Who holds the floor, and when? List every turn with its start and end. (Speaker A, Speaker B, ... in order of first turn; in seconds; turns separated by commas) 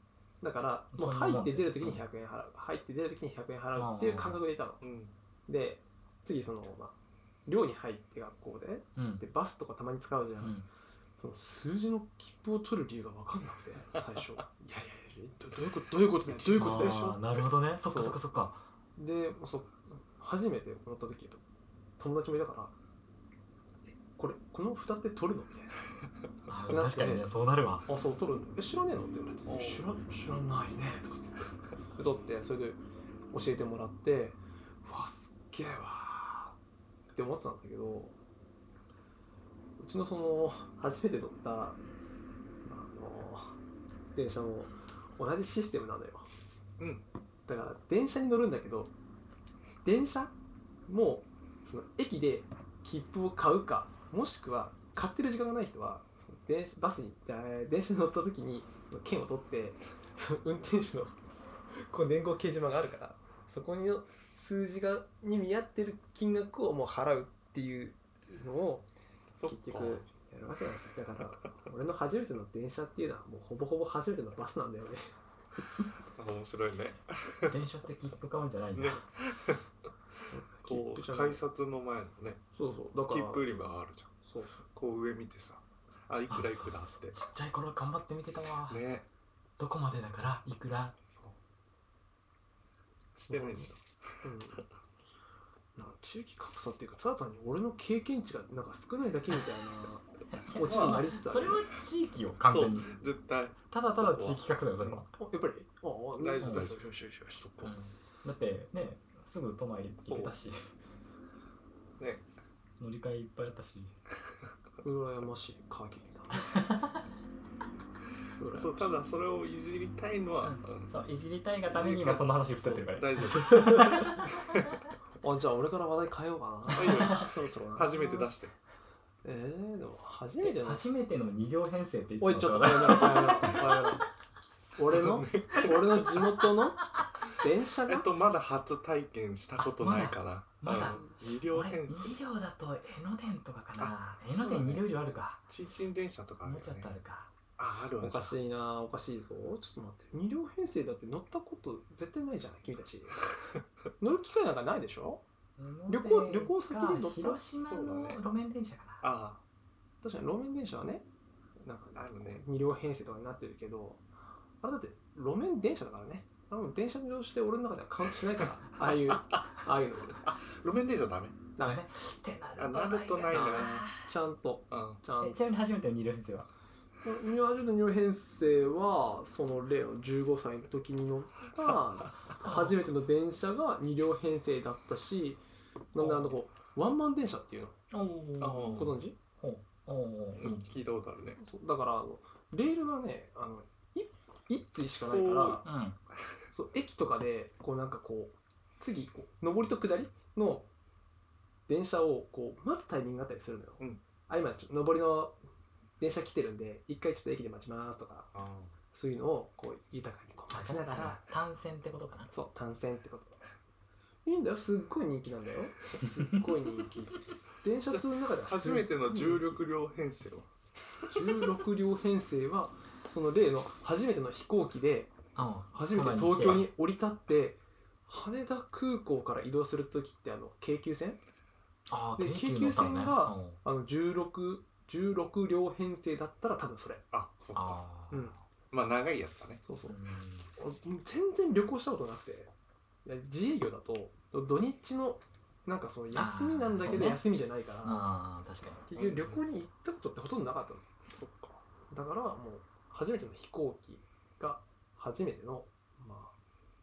Speaker A: 0.4-4.8, Speaker B: 0.9-2.0, Speaker B: 3.8-4.4, Speaker C: 4.8-5.1, Speaker A: 5.5-6.9, Speaker A: 7.5-10.5, Speaker B: 8.9-9.2, Speaker B: 10.4-10.7, Speaker A: 11.2-17.2, Speaker C: 16.3-17.2, Speaker B: 16.5-18.6, Speaker A: 17.9-18.2, Speaker A: 19.0-21.4, Speaker A: 22.0-22.7, Speaker A: 23.9-25.8, Speaker B: 26.5-27.9, Speaker A: 26.7-27.2, Speaker A: 27.9-36.5, Speaker C: 29.4-29.9, Speaker A: 37.1-38.1, Speaker A: 39.8-41.8, Speaker A: 42.6-43.5, Speaker A: 44.1-46.3, Speaker C: 46.8-47.0, Speaker A: 47.5-48.9, Speaker A: 49.8-50.3, Speaker A: 50.9-61.1, Speaker A: 61.8-68.9, Speaker C: 69.3-70.1, Speaker A: 69.4-75.1, Speaker C: 76.1-77.5, Speaker B: 77.5-79.0, Speaker C: 78.7-79.6, Speaker A: 80.2-81.4, Speaker C: 80.6-82.4, Speaker A: 82.5-83.5, Speaker C: 83.1-87.2, Speaker A: 84.2-84.6, Speaker B: 86.3-88.8, Speaker C: 88.7-89.1, Speaker B: 89.6-91.0, Speaker C: 91.1-91.4, Speaker C: 93.2-94.2, Speaker A: 93.3-93.7, Speaker A: 94.2-94.6, Speaker A: 95.8-101.6, Speaker B: 100.3-103.0, Speaker C: 100.6-101.1, Speaker C: 102.5-105.0, Speaker B: 103.7-105.1, Speaker A: 105.2-107.4, Speaker C: 106.2-107.7, Speaker B: 106.4-106.7, Speaker B: 107.6-110.7, Speaker C: 112.0-112.3, Speaker B: 112.8-113.9, Speaker A: 114.8-116.5, Speaker B: 116.4-117.0, Speaker A: 118.4-119.0, Speaker C: 118.5-120.9, Speaker B: 120.4-124.5, Speaker C: 121.7-124.7, Speaker A: 123.3-124.1, Speaker A: 125.2-128.3, Speaker C: 126.7-128.6, Speaker B: 126.8-127.1, Speaker A: 129.2-130.9, Speaker B: 130.4-133.6, Speaker A: 132.2-134.1, Speaker A: 134.8-138.1, Speaker C: 134.9-136.2, Speaker C: 137.9-142.2, Speaker B: 139.6-145.4, Speaker C: 143.8-144.9, Speaker C: 145.5-146.9, Speaker B: 146.4-147.3, Speaker C: 147.6-148.3, Speaker A: 148.0-153.3, Speaker A: 154.0-155.2, Speaker B: 155.6-159.0, Speaker A: 155.9-157.4, Speaker C: 157.6-158.2, Speaker C: 159.0-159.4, Speaker A: 160.0-161.0, Speaker A: 161.6-164.0, Speaker C: 161.9-162.4, Speaker A: 164.6-170.2, Speaker C: 170.1-171.4, Speaker A: 171.6-171.8, Speaker B: 171.6-174.1, Speaker C: 172.6-173.8, Speaker A: 173.3-175.4, Speaker C: 174.7-175.0, Speaker B: 175.2-176.5, Speaker A: 177.0-185.4, Speaker B: 182.4-182.7, Speaker A: 185.9-187.8, Speaker B: 186.0-186.4, Speaker B: 187.9-190.7, Speaker C: 188.4-188.9, Speaker A: 188.6-189.2, Speaker C: 190.4-191.4, Speaker A: 191.4-195.7, Speaker C: 195.0-195.6, Speaker B: 195.6-196.0, Speaker A: 196.5-200.7, Speaker A: 201.7-205.4, Speaker A: 206.0-208.3, Speaker C: 208.3-208.7, Speaker A: 208.9-211.2, Speaker B: 210.5-212.3, Speaker A: 212.3-213.4, Speaker A: 214.2-219.6, Speaker B: 216.0-216.3, Speaker C: 217.9-220.5, Speaker A: 221.1-225.1, Speaker B: 225.3-226.7, Speaker A: 225.7-231.2, Speaker B: 231.9-233.6, Speaker A: 232.2-237.1, Speaker C: 237.1-237.8, Speaker B: 237.5-238.4, Speaker C: 238.7-239.6, Speaker A: 239.7-239.9, Speaker B: 239.9-240.5, Speaker A: 240.6-242.5, Speaker A: 243.0-248.0, Speaker B: 246.1-247.2, Speaker B: 247.8-248.8, Speaker A: 248.9-250.9, Speaker C: 248.9-249.4, Speaker C: 251.1-251.6, Speaker A: 251.9-256.3